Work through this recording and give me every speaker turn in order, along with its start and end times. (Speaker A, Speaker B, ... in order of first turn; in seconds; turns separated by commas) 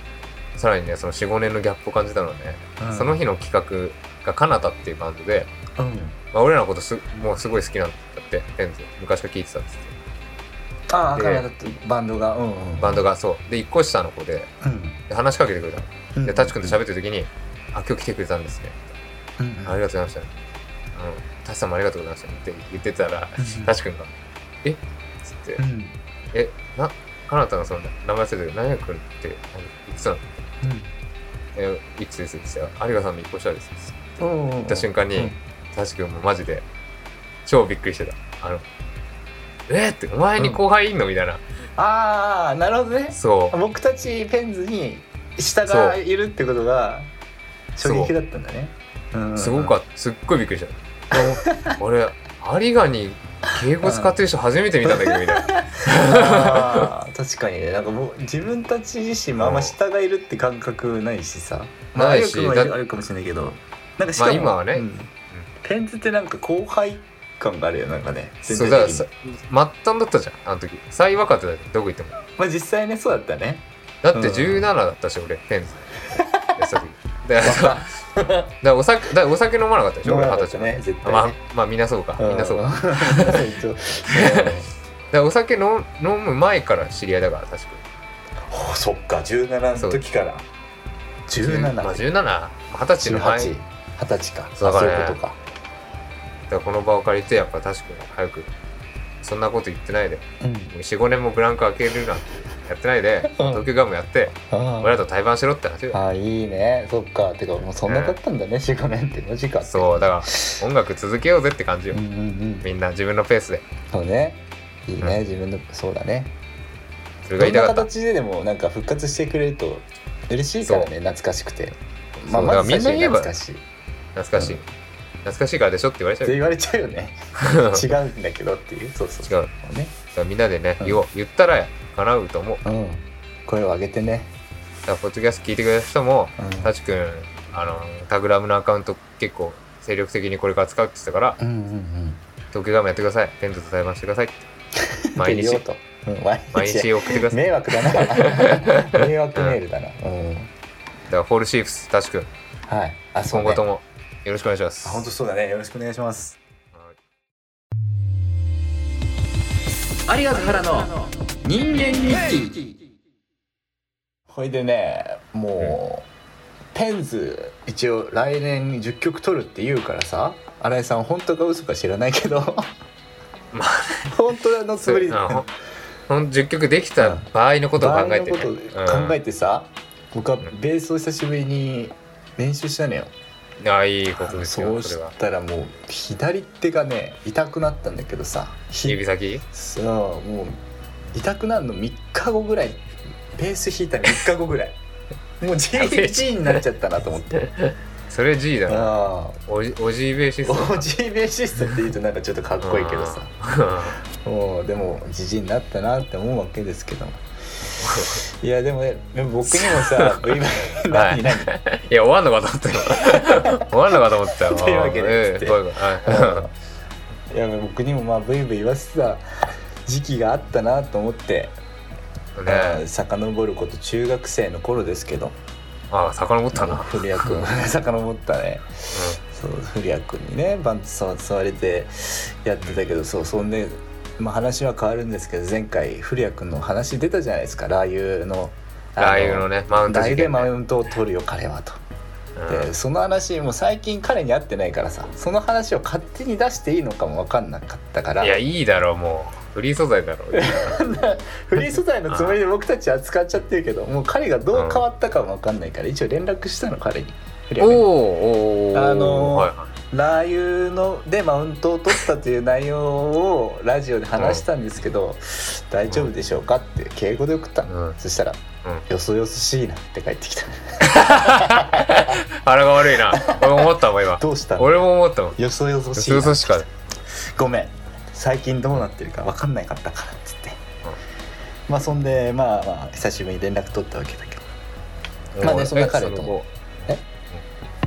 Speaker A: 0.6-5.5, Speaker B: 2.8-3.2, Speaker B: 5.8-6.2, Speaker A: 6.3-10.0, Speaker B: 10.9-13.0, Speaker A: 11.1-11.5, Speaker A: 12.8-14.5, Speaker B: 14.6-15.0, Speaker A: 15.1-19.0, Speaker B: 16.2-16.8, Speaker B: 19.4-19.8, Speaker A: 19.6-20.3, Speaker A: 20.9-25.6, Speaker B: 23.4-23.7, Speaker B: 25.6-26.0, Speaker A: 26.3-30.5, Speaker B: 30.6-30.9, Speaker A: 31.6-34.0, Speaker B: 34.2-35.4, Speaker A: 34.6-36.6, Speaker A: 37.5-38.7, Speaker A: 39.7-41.4, Speaker B: 41.8-47.1, Speaker A: 43.1-43.6, Speaker A: 45.7-46.0, Speaker B: 47.8-49.8, Speaker A: 47.8-48.1, Speaker A: 49.4-56.9, Speaker B: 51.1-51.8, Speaker B: 53.8-54.2, Speaker B: 54.9-69.1, Speaker A: 59.4-59.8, Speaker A: 62.0-62.8, Speaker A: 64.2-65.5, Speaker A: 68.5-72.2, Speaker B: 72.3-74.7, Speaker A: 74.0-75.9, Speaker B: 76.1-76.6, Speaker A: 76.6-77.9, Speaker B: 77.4-78.5, Speaker A: 78.6-83.5, Speaker B: 80.0-81.4, Speaker B: 82.2-84.7, Speaker A: 84.1-84.6, Speaker A: 85.1-87.8, Speaker B: 88.5-90.5, Speaker A: 89.8-90.0, Speaker B: 91.3-92.0, Speaker A: 91.4-93.5, Speaker B: 93.0-95.4, Speaker A: 94.6-95.2, Speaker A: 96.5-98.5, Speaker A: 99.2-106.0, Speaker B: 100.4-100.7, Speaker B: 103.3-103.7, Speaker B: 104.5-105.0, Speaker B: 105.9-110.6, Speaker A: 107.9-108.2, Speaker A: 109.7-112.0, Speaker B: 111.9-112.7, Speaker A: 112.6-113.6, Speaker B: 113.9-116.3, Speaker A: 117.2-117.9, Speaker B: 117.4-123.6, Speaker A: 120.6-120.9, Speaker A: 122.3-123.3, Speaker A: 124.2-124.6, Speaker A: 125.2-126.4, Speaker B: 126.2-129.9, Speaker A: 127.4-127.9, Speaker A: 129.3-129.5, Speaker A: 130.2-132.6, Speaker B: 132.7-134.3, Speaker A: 134.9-141.4, Speaker B: 136.4-136.7, Speaker B: 141.4-142.2, Speaker A: 142.5-144.5, Speaker B: 144.8-150.5, Speaker A: 145.2-145.6, Speaker A: 146.5-149.6, Speaker A: 151.1-152.3, Speaker B: 152.7-153.6, Speaker A: 153.3-155.1, Speaker B: 154.8-156.4, Speaker B: 160.1-162.6, Speaker B: 164.3-166.1, Speaker B: 166.7-172.7, Speaker A: 173.5-174.2, Speaker B: 174.1-175.5, Speaker A: 174.8-175.5, Speaker A: 176.1-179.2, Speaker B: 177.0-183.1, Speaker A: 183.6-185.1, Speaker B: 184.1-190.6, Speaker A: 188.8-189.4, Speaker B: 191.1-194.8, Speaker B: 195.4-197.5, Speaker A: 195.8-196.6, Speaker A: 197.4-200.9, Speaker B: 198.7-199.4, Speaker B: 200.4-203.3, Speaker A: 202.6-204.0, Speaker B: 204.1-211.5, Speaker A: 207.8-208.2, Speaker A: 209.5-216.5, Speaker B: 212.8-216.5, Speaker B: 217.3-219.2, Speaker B: 219.9-221.6, Speaker A: 222.3-222.8, Speaker B: 222.5-225.4, Speaker A: 225.9-227.4, Speaker B: 226.5-241.8, Speaker A: 228.9-229.2, Speaker A: 239.0-240.5, Speaker A: 242.4-242.7, Speaker B: 242.5-248.4, Speaker A: 248.2-250.8, Speaker B: 250.3-257.9, Speaker A: 251.6-252.4, Speaker A: 254.5-254.8, Speaker A: 257.6-259.7, Speaker B: 258.7-272.2, Speaker A: 264.2-264.4, Speaker A: 267.7-268.0, Speaker A: 270.8-275.4, Speaker B: 273.1-274.8, Speaker B: 275.4-280.6, Speaker A: 276.0-276.7, Speaker B: 281.7-284.5, Speaker A: 285.4-286.5, Speaker B: 285.4-286.4